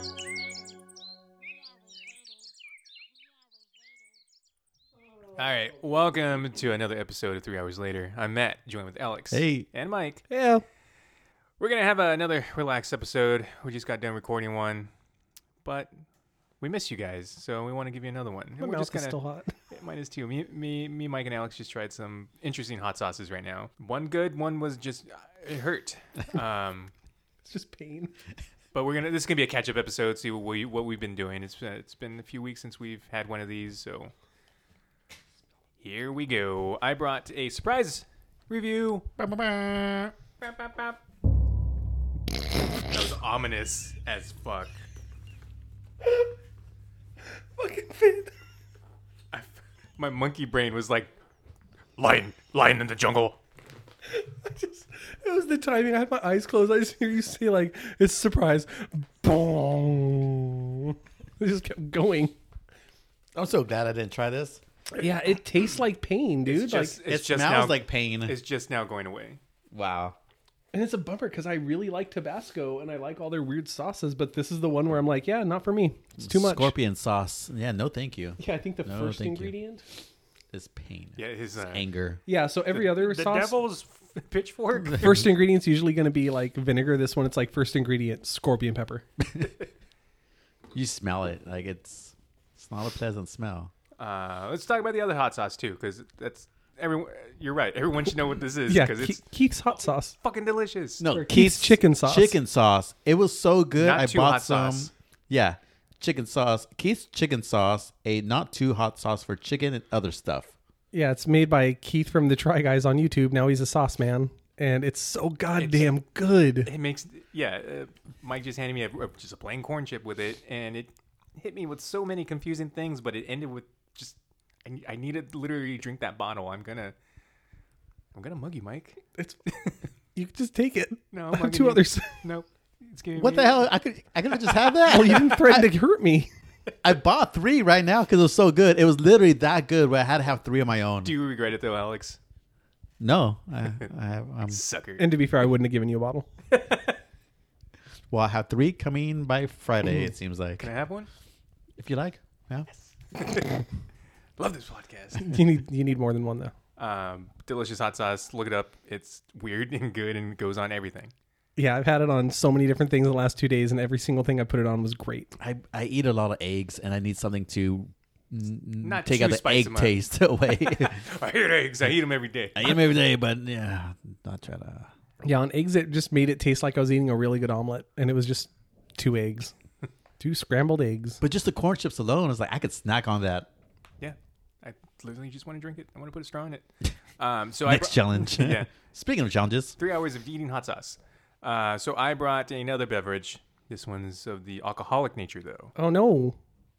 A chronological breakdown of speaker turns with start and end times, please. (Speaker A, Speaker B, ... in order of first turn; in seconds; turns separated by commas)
Speaker A: 5.4-10.2, Speaker B: 9.3-9.7, Speaker C: 10.3-10.6, Speaker A: 11.6-14.9, Speaker A: 15.6-15.9, Speaker A: 16.6-19.2, Speaker C: 18.6-19.5, Speaker A: 19.7-26.9, Speaker C: 27.5-28.1, Speaker A: 28.7-34.1, Speaker A: 35.8-39.1, Speaker B: 39.2-40.1, Speaker A: 40.4-41.0, Speaker A: 42.8-44.8, Speaker C: 47.6-48.3, Speaker A: 49.3-51.1, Speaker A: 52.0-53.4, Speaker C: 54.1-62.3, Speaker B: 63.4-64.6, Speaker C: 64.9-67.0, Speaker A: 66.5-69.4, Speaker B: 67.1-68.4, Speaker B: 69.7-70.2, Speaker C: 70.7-76.7, Speaker B: 76.2-79.5, Speaker C: 78.4-79.8, Speaker B: 80.5-82.2, Speaker A: 81.2-81.8, Speaker C: 82.3-83.6, Speaker A: 82.7-85.3, Speaker C: 85.0-89.1, Speaker B: 90.7-93.7, Speaker A: 94.0-99.2, Speaker C: 98.7-100.2, Speaker A: 100.2-101.0, Speaker B: 101.0-110.5, Speaker C: 101.1-102.4, Speaker A: 103.8-104.9, Speaker C: 110.9-116.7, Speaker A: 115.6-115.9, Speaker A: 116.7-127.0, Speaker A: 128.1-129.0, Speaker C: 130.2-132.2, Speaker A: 131.1-133.7, Speaker B: 133.2-135.7, Speaker C: 134.8-136.3, Speaker B: 136.8-141.1, Speaker A: 141.0-142.2, Speaker B: 143.0-144.6, Speaker A: 144.5-145.1, Speaker C: 145.0-146.3, Speaker B: 148.1-150.7, Speaker A: 150.6-151.1, Speaker B: 151.8-152.7, Speaker A: 153.0-153.7, Speaker A: 154.4-155.5, Speaker C: 155.1-156.6, Speaker A: 156.8-161.1, Speaker C: 161.6-165.3, Speaker B: 165.4-171.0, Speaker A: 168.8-172.8, Speaker B: 172.6-174.9, Speaker C: 175.2-179.5, Speaker C: 180.2-181.2, Speaker B: 181.2-183.5, Speaker A: 184.0-186.7, Speaker A: 187.2-188.7, Speaker B: 187.7-189.8, Speaker A: 189.8-195.7, Speaker C: 195.8-196.4